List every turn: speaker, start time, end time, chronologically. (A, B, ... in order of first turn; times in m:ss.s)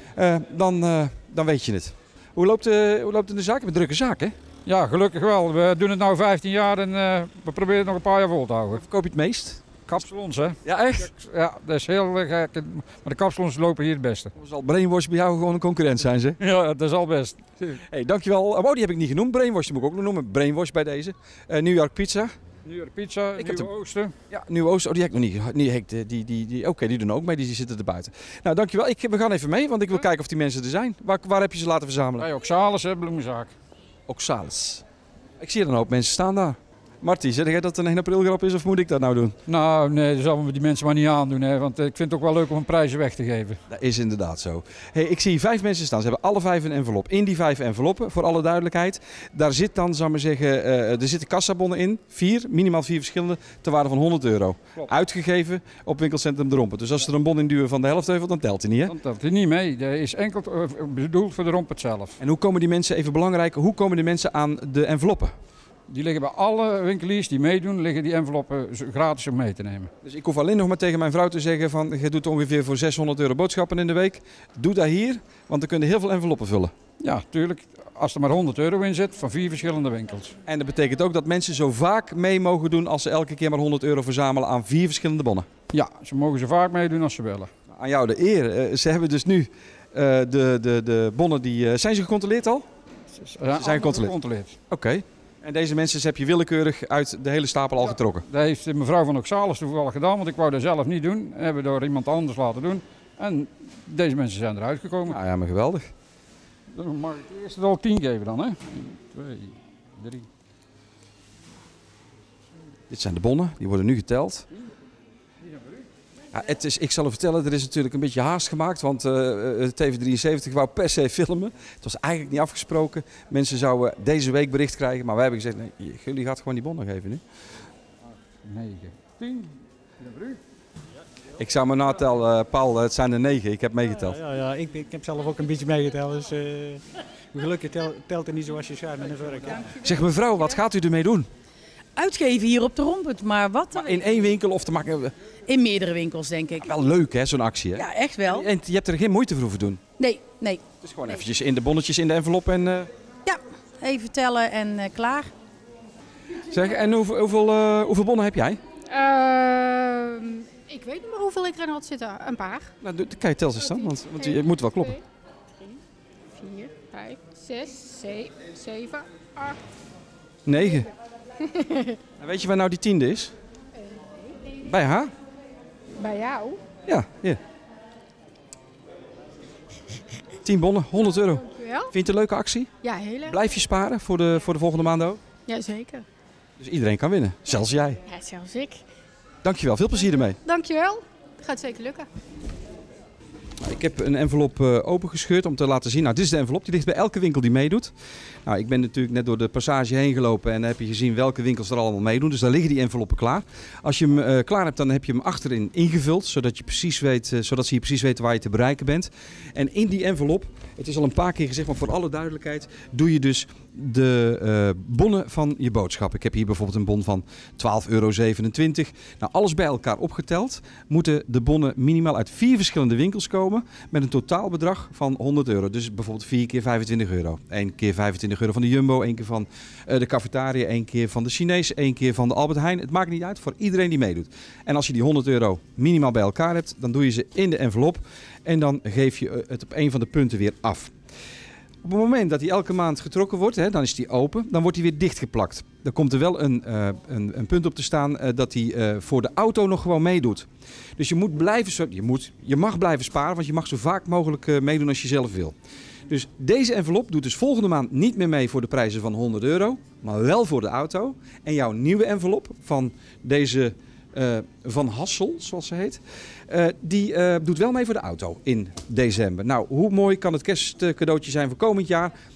0:00.2-0:04.4 A
0:04.7-0:08.8 B
0:08.7-0:09.6 A
0:09.9-0:14.3 B
0:10.6-0:11.1 A
0:14.4-0:16.4 A
0:16.4-0:17.8 B
0:17.8-0:22.3 A
0:22.7-0:24.1 B
0:23.4-0:23.7 A
0:24.3-0:32.3 A
0:32.2-0:33.5 B
0:34.1-0:34.8 A
0:35.4-0:39.4 A
0:39.5-0:43.6 B
0:43.7-0:59.0 A
0:58.9-1:02.2 B
1:02.2-1:05.3 A
1:05.9-1:09.9 B
1:10.0-1:16.7 A
1:17.0-1:20.4 B
1:20.5-1:25.5 A
1:25.7-1:27.5 B
1:27.7-1:32.6 A
1:33.2-1:34.6 B
1:33.5-1:34.2 A
1:34.7-1:38.2 A
1:38.3-1:45.2 B
1:45.1-1:45.8 A
1:46.7-1:50.3 B
1:52.9-1:54.5 A
1:56.3-2:07.2 A
2:08.4-2:10.4 B
2:11.4-2:14.2 A
2:14.1-2:19.8 C
2:19.8-2:21.3 A
2:22.0-2:23.7 D
2:23.7-2:25.1 A
2:25.5-2:26.6 D
2:26.6-2:29.8 A
2:27.8-2:28.5 D
2:30.0-2:30.6 D
2:30.8-2:32.9 A
2:33.3-2:35.3 D
2:36.4-2:38.6 A
2:38.9-2:42.7 E
2:42.8-2:45.0 A
2:43.6-2:44.9 E
2:46.3-2:49.6 E
2:50.5-2:50.9 A
2:51.4-2:52.0 E
2:52.2-2:53.3 A
2:53.8-2:54.4 E
2:54.6-2:55.1 A
2:56.0-2:56.6 E
2:56.9-2:57.4 A
3:00.4-3:02.7 A
3:01.4-3:01.9 E
3:02.8-3:03.4 E
3:03.3-3:05.2 A
3:05.5-3:06.1 E
3:06.6-3:08.0 A
3:08.1-3:08.8 E
3:09.4-3:10.4 A
3:10.4-3:12.1 E
3:13.6-3:17.9 A
3:18.4-4:00.9 A
4:01.8-4:15.6 A
4:16.1-4:32.1 A